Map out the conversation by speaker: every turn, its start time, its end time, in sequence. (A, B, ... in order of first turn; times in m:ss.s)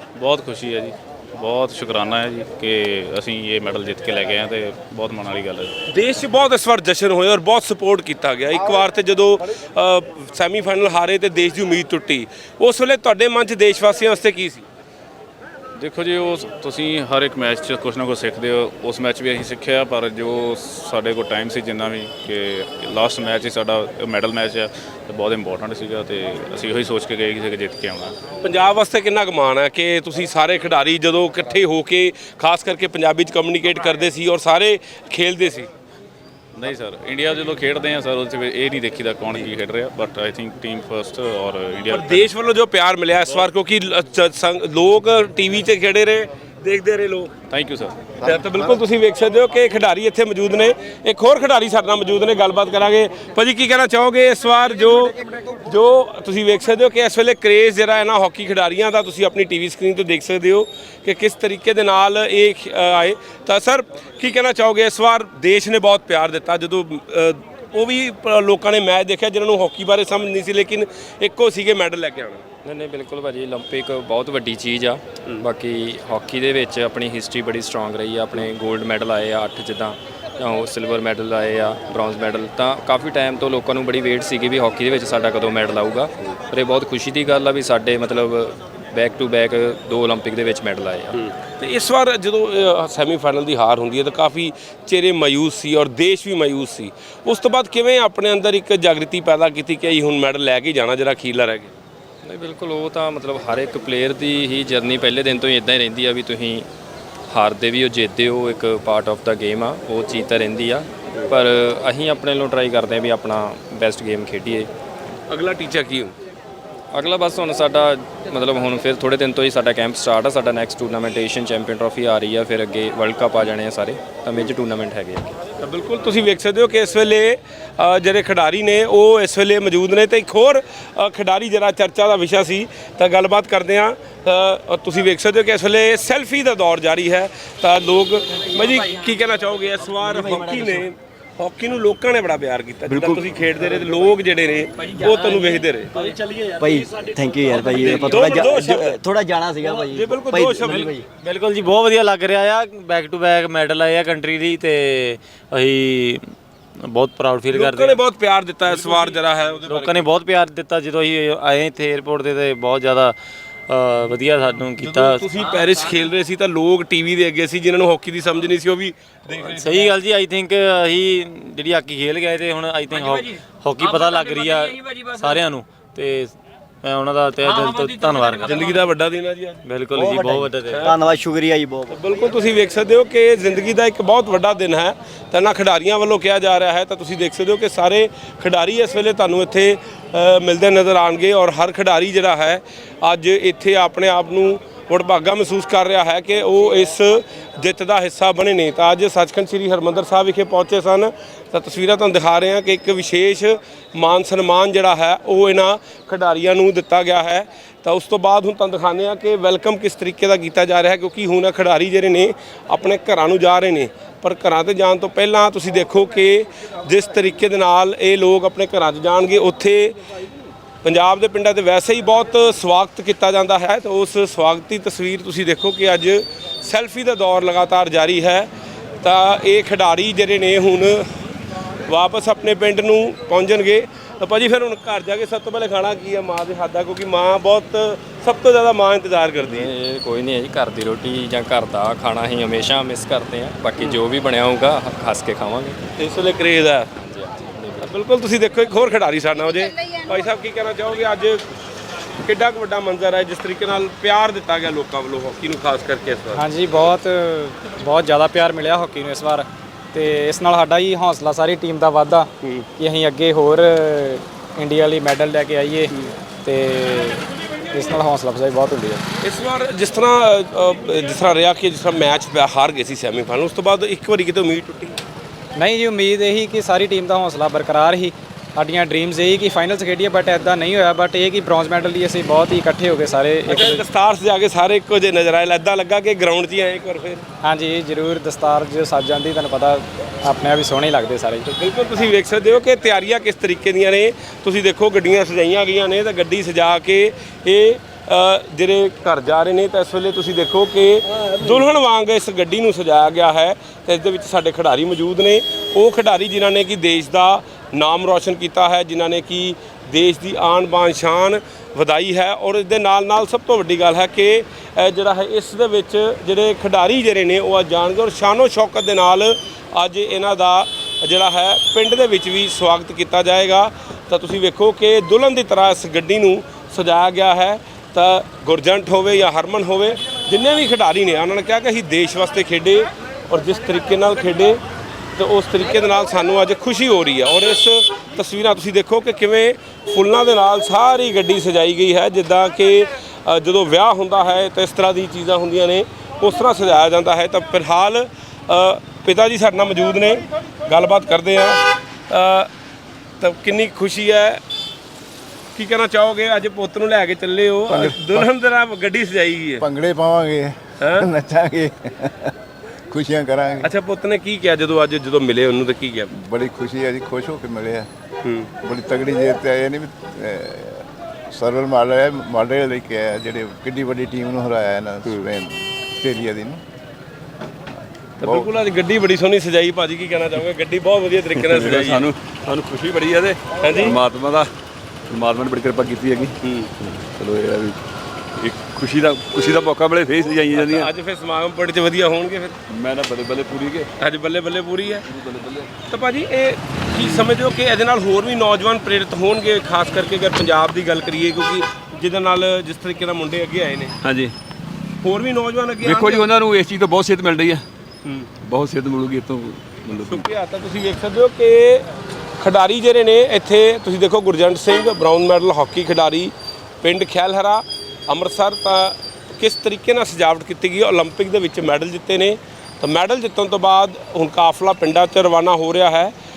0:00.2-0:05.7 A
0:05.9-0:14.6 B
0:15.8-0:28.1 A
0:28.4-0:35.7 B
0:36.6-0:42.3 A
0:41.9-0:47.3 B
0:47.5-0:48.0 A
0:48.2-1:12.4 B
1:12.6-1:31.2 C
1:31.2-1:41.7 B
1:42.2-1:46.7 C
1:47.3-1:54.7 C
1:55.3-1:56.1 B
1:56.9-2:05.4 C
2:05.6-2:26.1 B
2:20.1-2:20.8 D
2:22.9-2:23.2 D
2:26.5-2:31.1 D
2:27.6-2:29.0 B
2:29.8-2:30.9 B
2:31.2-2:38.0 E
2:37.5-2:40.1 B
2:39.7-2:43.2 E
2:43.7-2:45.2 E
2:44.8-2:49.9 B
2:49.4-2:58.5 E
2:58.4-2:59.6 B
2:59.6-3:00.8 E
3:00.0-3:02.0 D
3:00.6-3:01.0 B
3:01.9-3:40.0 B
3:40.8-3:48.5 B
3:49.0-3:51.1 B
3:51.9-3:59.7 B
3:59.4-4:05.8 C
4:06.0-4:06.9 B
4:07.0-4:07.8 C
4:07.8-4:11.4 B
4:12.2-4:16.4 B
4:16.4-4:29.0 F
4:22.4-4:22.7 B
4:29.2-4:35.0 B
4:35.6-4:43.8 F
4:43.5-4:47.2 B
4:47.4-4:51.4 F
4:51.4-5:34.6 B
5:35.2-5:52.5 B
5:53.2-5:54.4 B
5:55.6-5:59.6 B
5:57.7-5:58.3 G
5:59.6-6:02.3 G
6:00.8-6:01.1 B
6:02.9-6:03.7 G
6:03.6-6:06.1 B
6:06.1-6:07.9 G
6:08.2-6:08.5 B
6:08.6-6:16.6 G
6:18.2-6:22.1 B
6:18.2-6:18.5 G
6:21.4-6:24.5 H
6:23.6-6:24.0 B
6:25.1-6:27.8 H
6:26.4-6:26.7 B
6:28.4-6:30.9 H
6:30.5-6:32.6 B
6:32.7-6:33.9 H
6:34.0-6:35.1 B
6:35.1-6:35.7 H
6:35.9-6:44.0 B
6:44.0-6:44.3 H
6:45.0-6:46.3 B
6:45.8-6:47.6 H
6:48.0-6:48.3 B
6:48.4-6:50.2 H
6:50.0-6:51.9 B
6:52.4-7:06.1 B